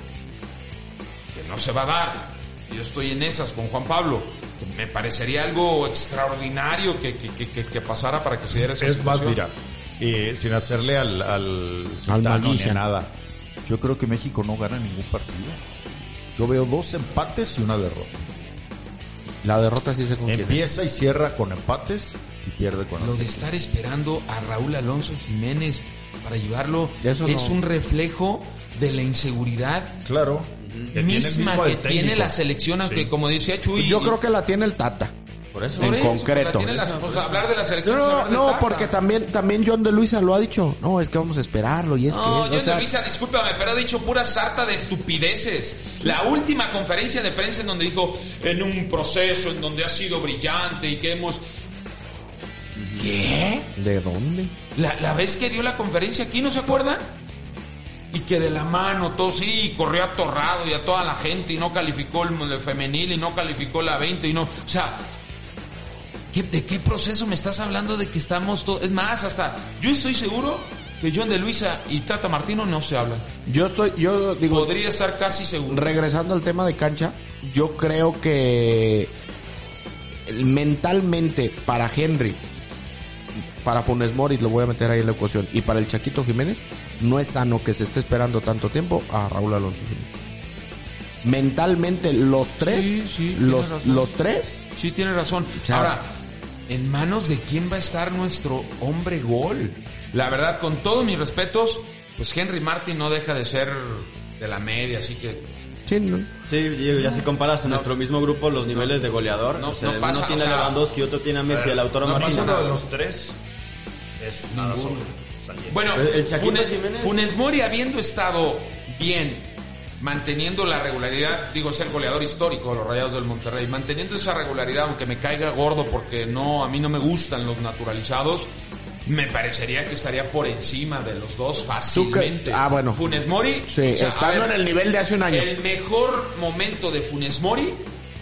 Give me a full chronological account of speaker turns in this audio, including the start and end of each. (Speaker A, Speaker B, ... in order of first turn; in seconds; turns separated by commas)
Speaker A: 1.3-9.4, Speaker B: 8.7-15.6, Speaker C: 12.1-12.8, Speaker B: 16.3-18.3, Speaker C: 19.4-20.6, Speaker B: 20.3-23.5, Speaker A: 23.0-30.0, Speaker C: 27.0-27.6, Speaker B: 30.1-33.1, Speaker D: 30.6-30.9, Speaker A: 30.9-34.2, Speaker C: 33.8-35.1, Speaker D: 35.5-37.4, Speaker A: 35.8-38.9, Speaker C: 35.8-36.7, Speaker C: 37.8-42.9, Speaker A: 42.1-51.4, Speaker D: 52.8-53.2, Speaker A: 53.0-53.7, Speaker C: 53.7-54.5, Speaker A: 54.8-57.1, Speaker A: 58.1-65.0, Speaker A: 66.3-73.3, Speaker C: 73.5-74.7, Speaker A: 74.5-76.0, Speaker C: 75.7-79.1, Speaker C: 80.3-82.4, Speaker C: 83.6-90.1, Speaker C: 91.2-94.6, Speaker A: 92.7-94.2, Speaker A: 94.7-96.1, Speaker C: 95.6-96.0, Speaker A: 96.7-105.5, Speaker C: 105.9-106.3, Speaker D: 106.5-112.7, Speaker A: 108.7-109.0, Speaker A: 109.5-110.8, Speaker B: 111.5-113.4, Speaker A: 112.0-112.8, Speaker B: 114.2-115.9, Speaker A: 114.5-115.1, Speaker A: 115.7-128.5, Speaker D: 115.9-117.3, Speaker A: 129.1-134.6, Speaker C: 131.9-133.0, Speaker C: 133.7-135.5, Speaker A: 135.3-137.9